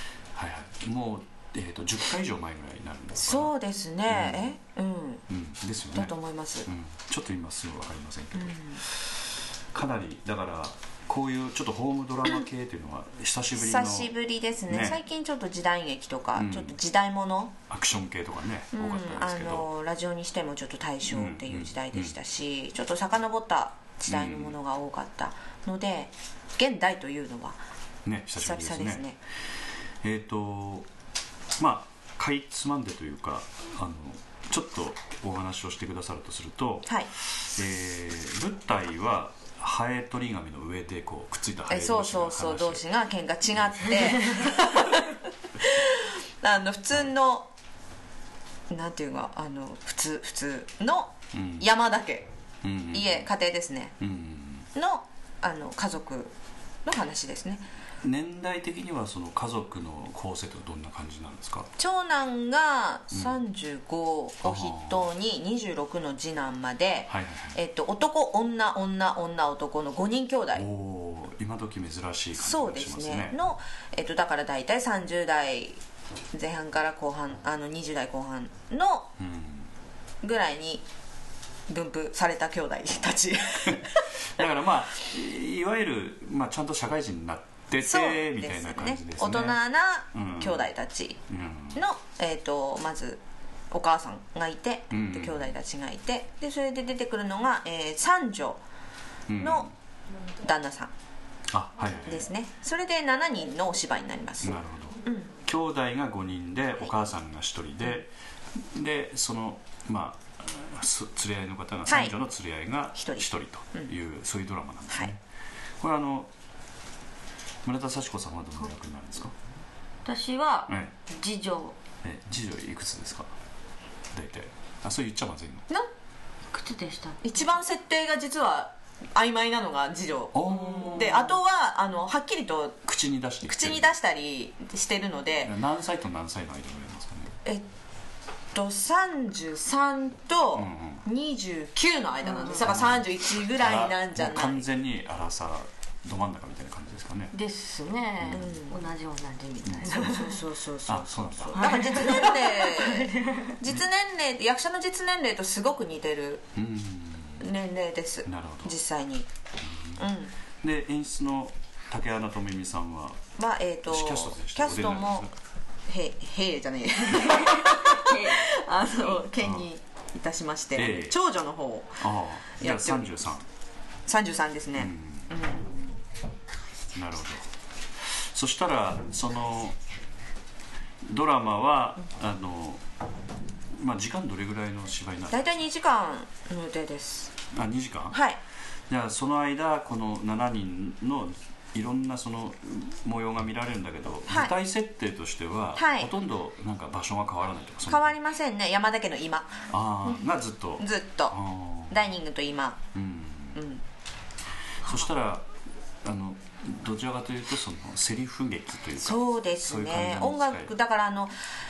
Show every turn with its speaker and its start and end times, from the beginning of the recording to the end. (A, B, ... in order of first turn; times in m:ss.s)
0:00.4-0:03.5 A
0:03.2-0:05.2 B
0:04.1-0:04.6 A
0:05.3-0:14.1 A
0:06.0-0:06.7 B
0:08.4-0:08.8 B
0:13.6-0:17.6 B
0:14.7-0:15.0 A
0:16.3-0:16.8 A
0:17.7-0:19.7 A
0:18.7-0:27.6 B
0:21.0-0:22.2 A
0:24.1-0:24.6 A
0:28.0-0:29.1 A
0:28.4-0:29.2 B
0:30.0-0:30.9 A
0:31.6-0:42.9 A
0:41.7-0:45.1 B
0:43.5-0:44.2 A
0:45.6-0:47.5 B
0:48.7-0:52.3 B
0:51.3-0:51.7 A
0:52.6-0:53.3 A
0:52.9-0:54.0 B
0:54.0-0:54.7 A
0:54.8-0:56.3 B
0:56.8-0:57.6 B
0:58.0-1:01.7 A
1:01.8-1:10.6 B
1:03.1-1:03.4 A
1:04.4-1:05.1 A
1:07.1-1:07.6 A
1:10.5-1:13.4 A
1:12.4-1:15.8 B
1:16.3-1:19.1 B
1:19.2-1:19.7 A
1:20.2-1:20.8 B
1:21.7-1:24.0 B
1:23.7-1:30.7 A
1:27.8-1:31.2 B
1:31.3-1:31.8 A
1:31.7-1:38.6 B
1:34.9-1:35.5 A
1:39.3-1:39.7 A
1:39.4-1:39.7 B
1:40.4-1:40.9 B
1:41.5-1:42.3 A
1:42.0-1:44.6 B
1:44.4-1:48.1 A
1:45.1-1:45.3 B
1:48.7-1:55.2 A
1:51.9-1:52.2 B
1:52.9-1:53.9 B
1:55.8-1:56.3 A
1:57.6-1:59.4 A
2:00.0-2:01.8 C
2:02.0-2:03.3 A
2:04.1-2:05.7 A
2:06.5-2:07.2 C
2:07.2-2:12.8 B
2:10.3-2:11.4 A
2:12.8-2:13.9 A
2:13.4-2:15.5 B
2:15.4-2:17.3 A
2:18.5-2:24.7 B
2:20.6-2:21.0 A
2:22.6-2:27.3 A
2:27.3-2:30.4 C
2:28.2-2:28.5 A
2:28.3-2:28.8 B
2:29.6-2:30.2 A
2:29.8-2:36.5 B
2:30.9-2:32.0 A
2:31.6-2:33.6 C
2:36.6-2:37.5 A
2:37.4-2:39.3 B
2:38.2-2:38.8 A
2:39.6-2:40.0 A
2:40.0-2:40.3 B
2:40.6-2:43.2 A
2:43.4-2:45.3 B
2:43.9-2:45.3 A
2:45.9-2:53.3 B
2:47.2-2:49.2 C
2:49.4-2:49.7 A
2:50.8-2:51.2 A
2:52.0-2:53.4 A
2:54.1-2:55.8 B
2:54.8-2:55.4 A
2:56.9-2:57.5 A
2:58.0-2:59.8 A
3:01.1-3:02.8 A
3:03.7-3:05.6 A
3:05.3-3:07.3 B
3:07.5-3:08.2 A
3:08.1-3:08.4 B
3:08.9-3:18.2 A
3:14.3-3:14.5 B
3:15.8-3:16.1 B
3:17.9-3:20.2 B
3:19.7-3:22.1 A
3:20.8-3:21.4 B
3:21.9-3:22.8 B
3:22.9-3:23.6 A
3:23.6-3:23.8 B
3:24.8-3:25.5 A
3:26.0-3:30.7 A
3:29.0-3:31.4 B